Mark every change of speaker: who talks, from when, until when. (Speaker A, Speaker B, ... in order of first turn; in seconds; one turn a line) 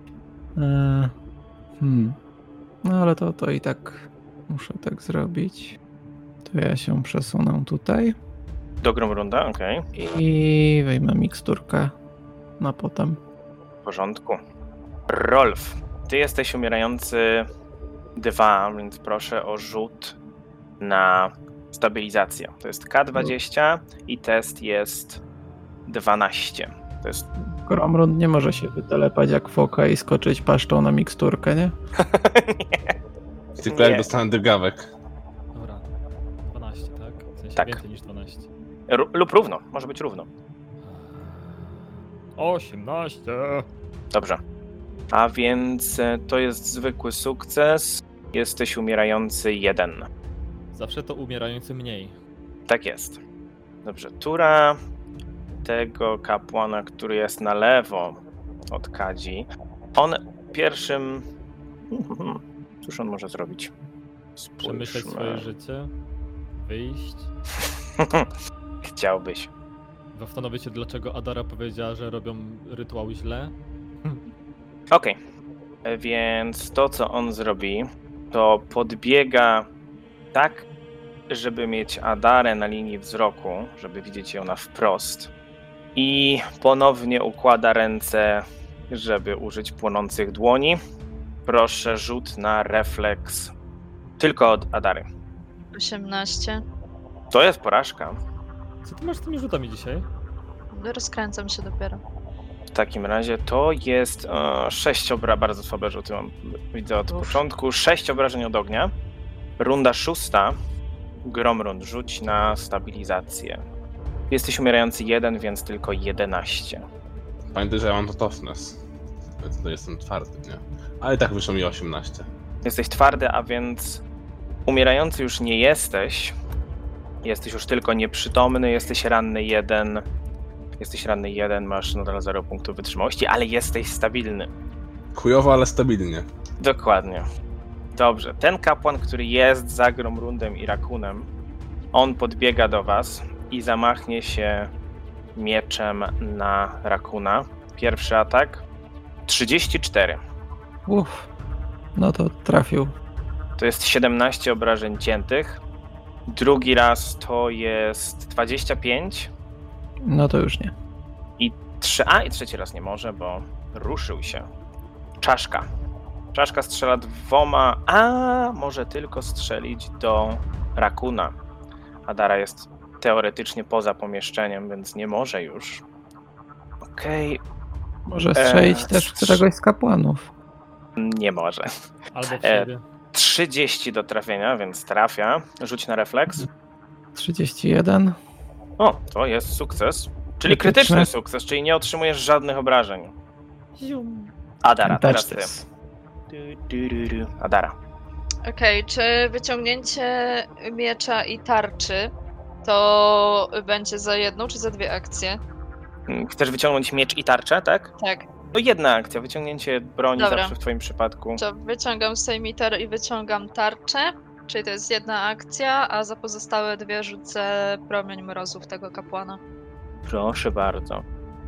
Speaker A: 0.6-1.1
Speaker A: 1.8-2.1
Speaker A: 2.8-5.8
Speaker A: 6.5-8.2
Speaker B: 8.8-9.9
Speaker A: 10.0-11.9
Speaker A: 12.6-13.2
Speaker B: 13.8-14.4
Speaker B: 15.1-17.5
Speaker B: 18.1-20.1
Speaker B: 20.8-25.2
Speaker B: 25.9-27.3
Speaker A: 27.6-31.7
Speaker B: 32.0-32.9
Speaker C: 33.6-34.9
Speaker B: 33.6-34.1
Speaker D: 35.5-35.8
Speaker D: 36.5-38.5
Speaker B: 37.5-37.8
Speaker B: 38.9-40.3
Speaker D: 40.8-43.6
Speaker B: 44.1-44.4
Speaker B: 45.1-50.1
Speaker D: 50.7-52.1
Speaker B: 52.7-53.2
Speaker B: 53.8-54.8
Speaker B: 55.6-58.2
Speaker B: 58.7-61.2
Speaker B: 61.9-63.7
Speaker B: 64.4-65.5
Speaker D: 64.6-65.9
Speaker D: 66.5-67.3
Speaker B: 68.0-68.3
Speaker B: 68.8-69.5
Speaker D: 70.1-74.2
Speaker B: 74.9-75.2
Speaker B: 75.8-79.7
Speaker B: 80.3-80.7
Speaker B: 81.3-85.3
Speaker B: 85.9-90.8
Speaker B: 91.5-93.5
Speaker B: 94.2-95.1
Speaker E: 95.7-96.6
Speaker B: 97.3-98.2
Speaker D: 98.8-100.0
Speaker E: 100.7-102.0
Speaker B: 102.7-108.9
Speaker B: 109.6-110.6
Speaker B: 111.2-113.6
Speaker B: 114.3-116.8
Speaker C: 117.5-118.8
Speaker C: 119.4-122.2
Speaker B: 122.6-124.0
Speaker B: 124.7-126.3
Speaker B: 127.2-130.0
Speaker B: 130.8-134.5
Speaker C: 135.1-136.2
Speaker B: 136.6-137.2
Speaker B: 137.9-141.3
Speaker B: 141.9-144.7
Speaker B: 145.3-148.6
Speaker B: 149.3-150.2
Speaker A: 150.8-151.3
Speaker A: 151.9-152.9
Speaker B: 153.6-155.6
Speaker B: 156.3-159.3
Speaker A: 160.1-160.7
Speaker B: 161.4-164.5
Speaker B: 165.2-165.6
Speaker B: 166.3-171.3
Speaker B: 172.1-175.8
Speaker B: 176.9-177.4
Speaker A: 178.1-180.2
Speaker B: 178.3-179.4
Speaker B: 181.0-181.7
Speaker D: 182.1-182.8
Speaker B: 182.4-186.4
Speaker A: 187.1-188.2
Speaker B: 188.8-193.1
Speaker A: 190.4-191.1
Speaker D: 193.8-194.3
Speaker B: 194.6-195.5
Speaker A: 194.8-195.6
Speaker B: 196.3-197.7
Speaker E: 198.4-202.1
Speaker E: 202.6-205.4
Speaker B: 206.1-207.9
Speaker E: 208.0-208.2
Speaker B: 208.5-211.4
Speaker E: 210.2-210.5
Speaker E: 211.4-219.4
Speaker B: 220.1-221.0